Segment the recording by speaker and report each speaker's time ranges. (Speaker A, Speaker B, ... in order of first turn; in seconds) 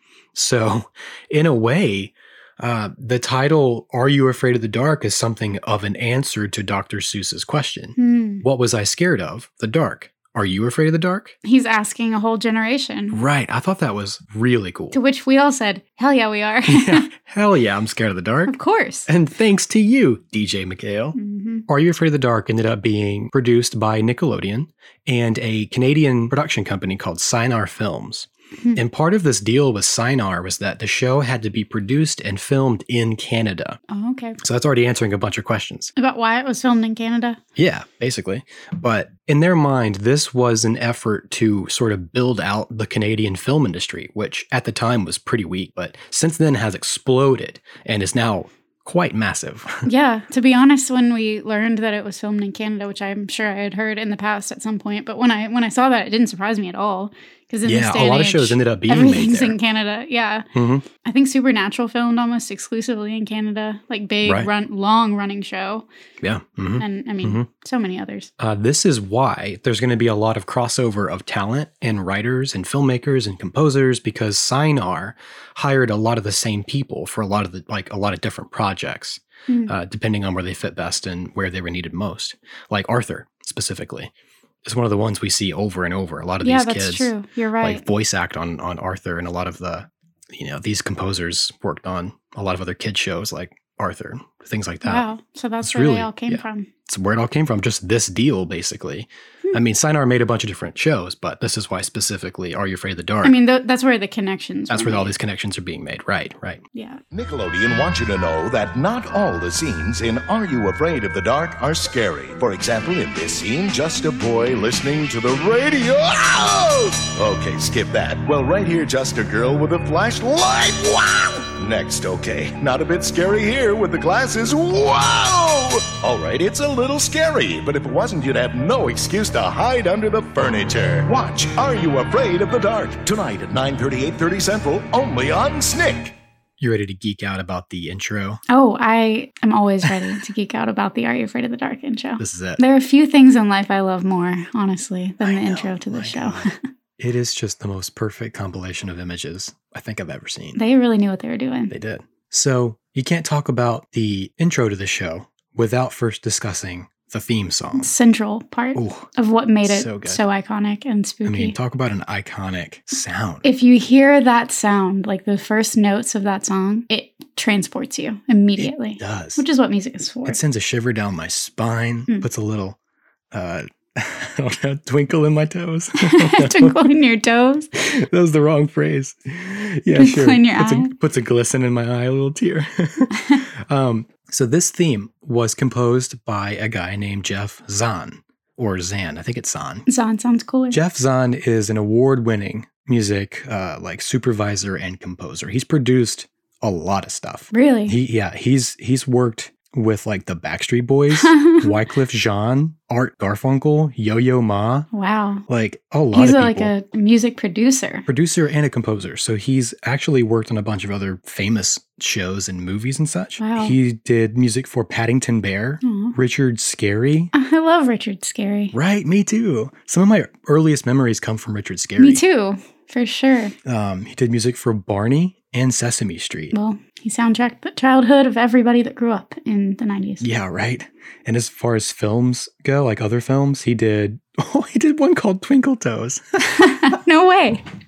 Speaker A: 0.3-11.3, 13.1-15.0, 16.7-18.5, 19.1-21.1, 21.7-33.8, 34.4-35.9, 37.5-49.9, 57.6-59.6, 60.5-60.9, 64.2-64.5, 66.2-67.5, 68.4-84.1, 84.6-95.0, 95.6-103.3, 104.7-106.6, 136.6-138.4, 139.9-140.1, 142.2-142.6, 145.2-150.6, 151.7-157.9, 158.7-159.1, 159.6-160.2, 161.2-163.4, 168.6-169.4, 170.2-172.8, 173.3-176.9, 177.9-189.8, 190.7-204.9, 205.5-206.7, 208.1-217.3, 218.7-222.2, 223.6-226.5, 230.2-237.0
Speaker B: 8.0-8.4, 11.4-13.2, 14.9-17.1, 18.4-19.1, 21.1-21.6, 33.9-34.4, 36.0-37.4, 49.9-65.8, 66.8-68.3, 79.5-79.7, 86.4-87.8, 94.8-96.7, 103.2-105.1, 106.7-107.0, 138.5-146.6, 150.6-151.7, 157.7-161.6, 163.4-170.4, 176.0-177.7, 179.9-180.9, 183.1-183.4, 189.9-190.8, 197.5-197.9, 201.1-201.7, 204.9-205.4, 206.1-208.1, 213.4-213.8, 215.8-216.2, 217.3-218.7, 222.0-223.5, 226.5-230.3, 236.4-237.6
Speaker C: 107.1-136.2